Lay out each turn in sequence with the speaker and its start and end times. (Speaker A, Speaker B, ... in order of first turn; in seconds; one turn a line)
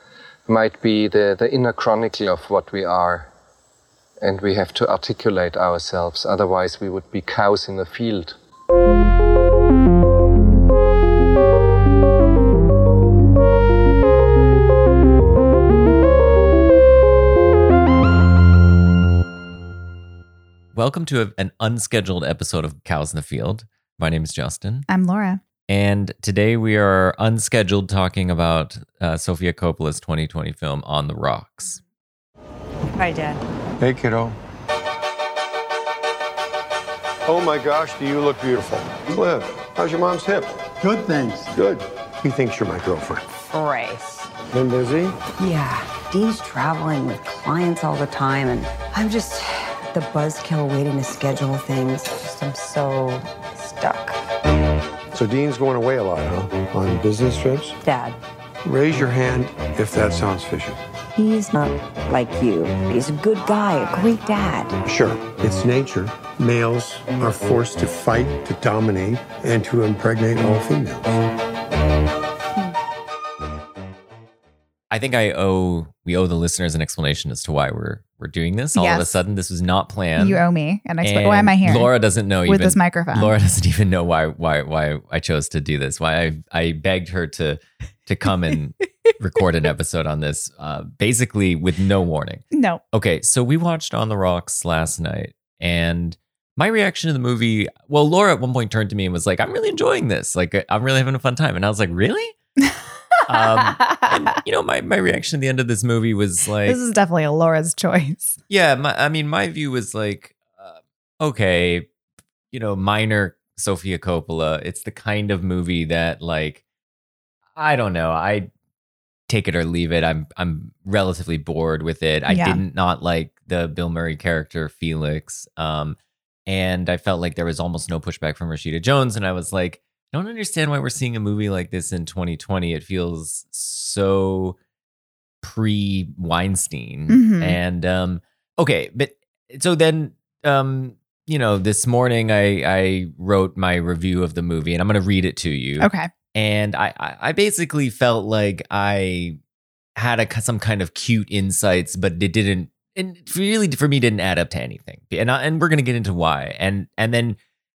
Speaker A: 0.5-3.3
Speaker A: 4.2-8.4
Speaker B: 20.7-24.9
Speaker C: 24.9-25.4
Speaker B: 25.7-31.8
Speaker D: 32.9-33.4
Speaker E: 33.8-34.4
Speaker E: 37.3-43.2
Speaker D: 43.5-44.2
Speaker E: 44.5-45.2
Speaker D: 45.4-54.2
Speaker E: 55.1-57.8
Speaker D: 57.8-58.2
Speaker E: 58.6-60.8
Speaker D: 61.2-64.8
Speaker E: 64.9-71.1
Speaker B: 74.9-80.4
Speaker C: 78.8-79.1
Speaker C: 80.2-81.9
Speaker B: 81.0-102.4
Speaker C: 82.5-83.3
Speaker C: 92.5-92.8
Speaker C: 102.6-104.4
Speaker B: 103.3-106.8
Speaker C: 106.7-108.4
Speaker B: 108.5-111.9
Speaker B: 112.5-116.6
Speaker B: 117.5-118.5
Speaker B: 119.3-134.6
Speaker C: 122.3-122.6
Speaker B: 135.4-149.4
Speaker C: 137.1-137.6
Speaker C: 145.8-146.1
Speaker B: 150.0-157.4